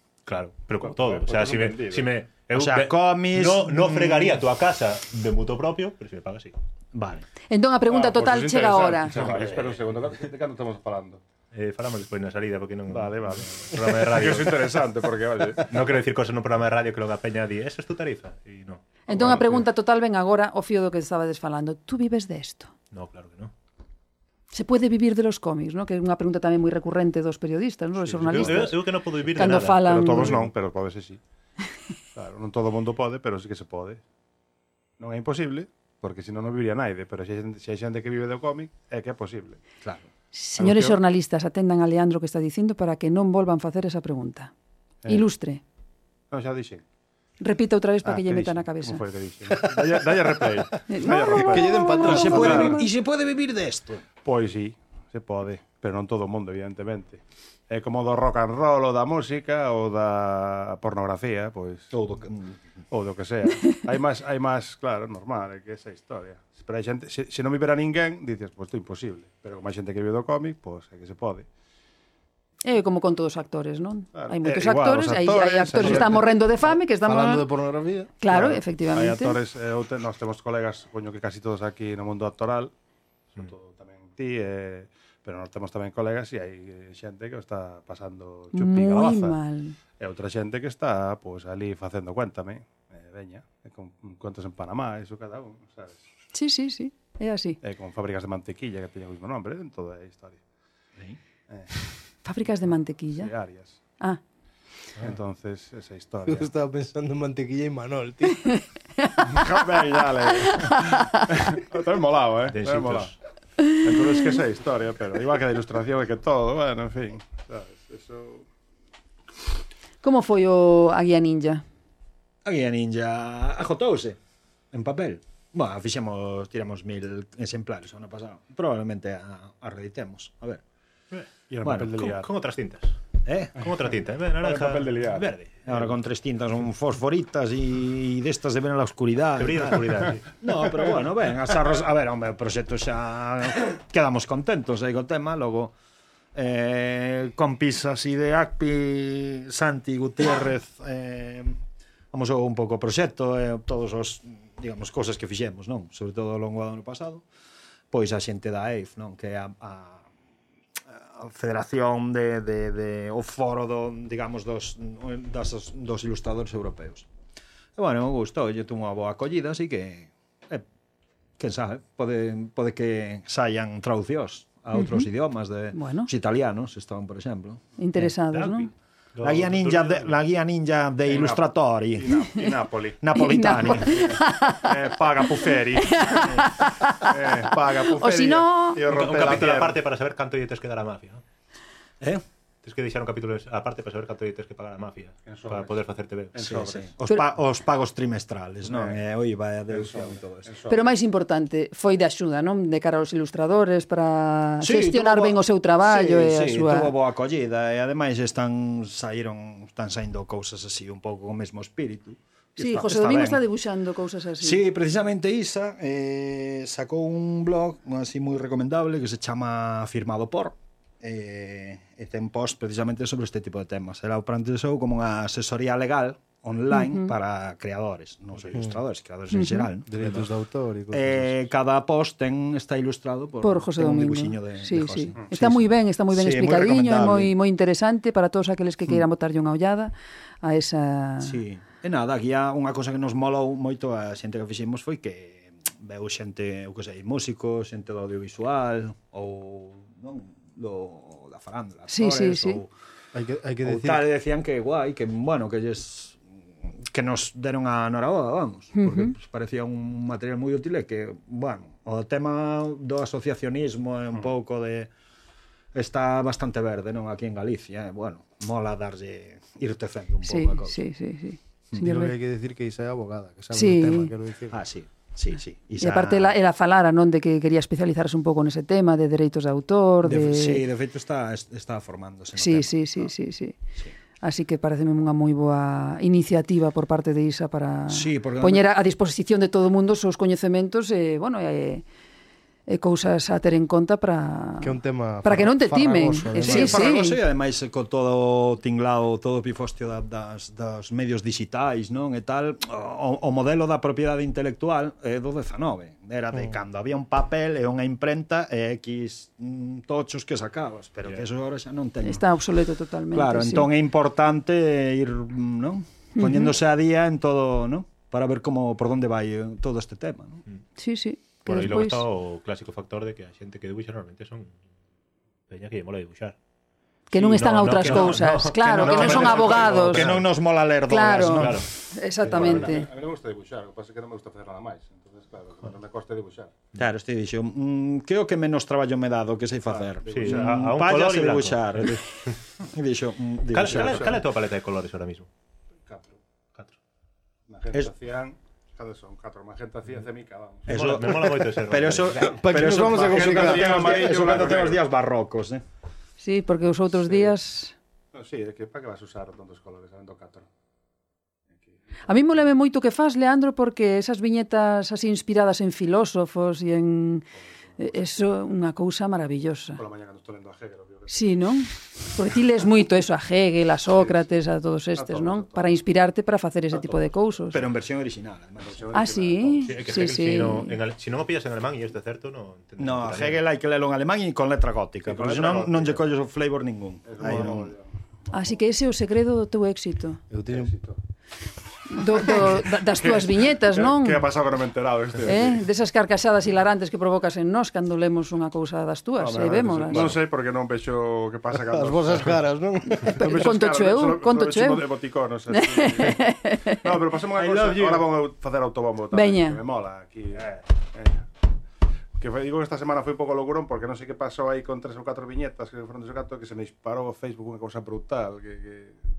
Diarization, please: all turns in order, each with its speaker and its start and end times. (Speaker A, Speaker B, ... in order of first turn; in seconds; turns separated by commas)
Speaker A: 0.2-6.5, Speaker B: 0.8-2.1, Speaker C: 2.5-4.2, Speaker C: 6.9-7.2, Speaker D: 7.5-9.2, Speaker B: 7.9-11.2, Speaker A: 9.1-9.8, Speaker A: 11.5-14.8, Speaker B: 12.9-15.7, Speaker A: 15.6-19.5, Speaker D: 19.1-22.7, Speaker B: 19.1-19.5, Speaker A: 22.9-23.5, Speaker D: 24.5-30.3, Speaker B: 28.0-28.7, Speaker A: 28.3-30.4, Speaker B: 29.5-31.2, Speaker B: 32.1-34.0, Speaker B: 35.0-39.6, Speaker D: 40.3-44.5, Speaker B: 40.6-41.0, Speaker D: 45.1-45.6, Speaker B: 46.3-46.8, Speaker D: 47.4-49.0, Speaker B: 48.0-52.8, Speaker D: 50.9-52.9, Speaker E: 51.3-52.7, Speaker C: 52.0-54.0, Speaker B: 54.2-61.9, Speaker C: 61.9-62.6, Speaker B: 62.9-71.5, Speaker D: 72.6-77.5, Speaker B: 74.1-76.3, Speaker E: 75.8-76.1, Speaker E: 76.9-78.6, Speaker D: 78.2-79.4, Speaker B: 78.9-82.7, Speaker B: 83.3-89.4, Speaker D: 88.5-89.8, Speaker B: 90.0-96.0, Speaker D: 96.3-97.6, Speaker B: 97.6-100.4, Speaker D: 102.2-103.3, Speaker B: 103.1-103.8, Speaker B: 105.0-106.5, Speaker E: 106.2-108.5, Speaker D: 108.4-109.5, Speaker B: 109.2-113.1, Speaker D: 110.4-111.2, Speaker A: 112.5-113.2, Speaker B: 113.7-118.5, Speaker D: 120.0-121.6, Speaker C: 122.4-124.2, Speaker C: 124.7-130.6, Speaker B: 131.5-132.3, Speaker C: 131.6-132.1, Speaker A: 131.9-133.0, Speaker C: 133.2-133.7, Speaker A: 133.6-135.9, Speaker B: 134.4-135.3, Speaker C: 135.6-145.7, Speaker A: 139.4-140.2, Speaker C: 146.3-151.6, Speaker C: 152.1-157.2, Speaker C: 157.9-160.1, Speaker C: 160.9-167.1, Speaker C: 167.8-170.6, Speaker C: 171.4-178.1, Speaker D: 174.7-175.1, Speaker D: 175.7-176.1, Speaker D: 177.8-178.7, Speaker A: 178.3-180.1, Speaker C: 179.2-182.3, Speaker B: 181.1-183.0, Speaker C: 183.0-184.2, Speaker D: 183.1-184.7, Speaker B: 183.8-186.4, Speaker D: 185.8-187.3, Speaker B: 187.1-189.8, Speaker D: 187.9-188.8, Speaker A: 188.9-191.2, Speaker A: 192.6-196.6, Speaker B: 195.3-195.8, Speaker B: 196.3-196.9, Speaker C: 196.4-200.5, Speaker B: 198.7-199.0, Speaker B: 199.7-200.9, Speaker D: 200.7-206.9, Speaker C: 204.6-213.4, Speaker D: 212.6-214.6, Speaker C: 214.4-230.3, Speaker D: 226.7-227.1, Speaker D: 229.3-229.7, Speaker E: 229.9-231.3, Speaker C: 230.9-237.3, Speaker D: 233.4-241.4, Speaker C: 241.2-252.7, Speaker D: 251.9-252.6, Speaker E: 253.1-254.0, Speaker C: 253.6-264.9, Speaker D: 258.7-259.1, Speaker C: 265.7-270.8, Speaker D: 270.2-272.1, Speaker E: 271.8-274.6, Speaker D: 273.5-274.1, Speaker C: 274.5-276.4, Speaker D: 275.8-280.6, Speaker C: 280.0-283.1, Speaker D: 282.4-283.6, Speaker D: 284.2-291.8, Speaker C: 287.9-288.6, Speaker D: 292.7-297.2, Speaker E: 294.6-296.8, Speaker C: 296.4-312.2, Speaker D: 312.0-313.7, Speaker C: 313.1-320.4, Speaker D: 316.1-316.5, Speaker D: 320.8-322.0, Speaker A: 321.4-324.5, Speaker A: 325.5-326.4, Speaker D: 327.1-330.0, Speaker A: 327.1-330.2, Speaker C: 327.8-331.6, Speaker B: 329.2-329.9, Speaker D: 330.9-332.9, Speaker A: 331.2-331.7, Speaker B: 332.3-336.5, Speaker C: 332.3-332.6, Speaker C: 336.7-342.1, Speaker B: 339.7-340.6, Speaker A: 340.1-342.0, Speaker C: 342.6-344.2, Speaker A: 343.5-345.3, Speaker B: 343.7-344.2, Speaker B: 345.9-346.2, Speaker B: 347.5-350.8, Speaker C: 350.7-355.6, Speaker A: 350.7-352.3, Speaker E: 352.2-354.1, Speaker B: 352.6-354.8, Speaker D: 356.2-357.7, Speaker B: 358.1-360.5, Speaker D: 362.1-367.2, Speaker B: 367.7-368.1, Speaker D: 367.8-369.8, Speaker B: 369.8-371.3, Speaker D: 371.1-377.6, Speaker B: 373.9-374.2, Speaker B: 374.9-375.8, Speaker B: 376.7-377.1, Speaker C: 377.5-378.9, Speaker B: 378.6-380.0, Speaker D: 378.9-380.8, Speaker A: 379.6-383.4, Speaker C: 382.8-387.7, Speaker B: 385.0-386.0, Speaker B: 387.1-388.6, Speaker D: 388.3-390.2, Speaker E: 390.3-390.7, Speaker B: 390.5-391.0, Speaker D: 391.9-394.2, Speaker B: 392.2-395.6, Speaker D: 395.2-400.1, Speaker B: 399.2-402.4, Speaker E: 401.5-403.3, Speaker B: 403.0-411.2, Speaker D: 403.2-404.9, Speaker D: 405.5-406.9, Speaker C: 407.4-408.1, Speaker D: 409.1-409.6, Speaker B: 412.2-419.0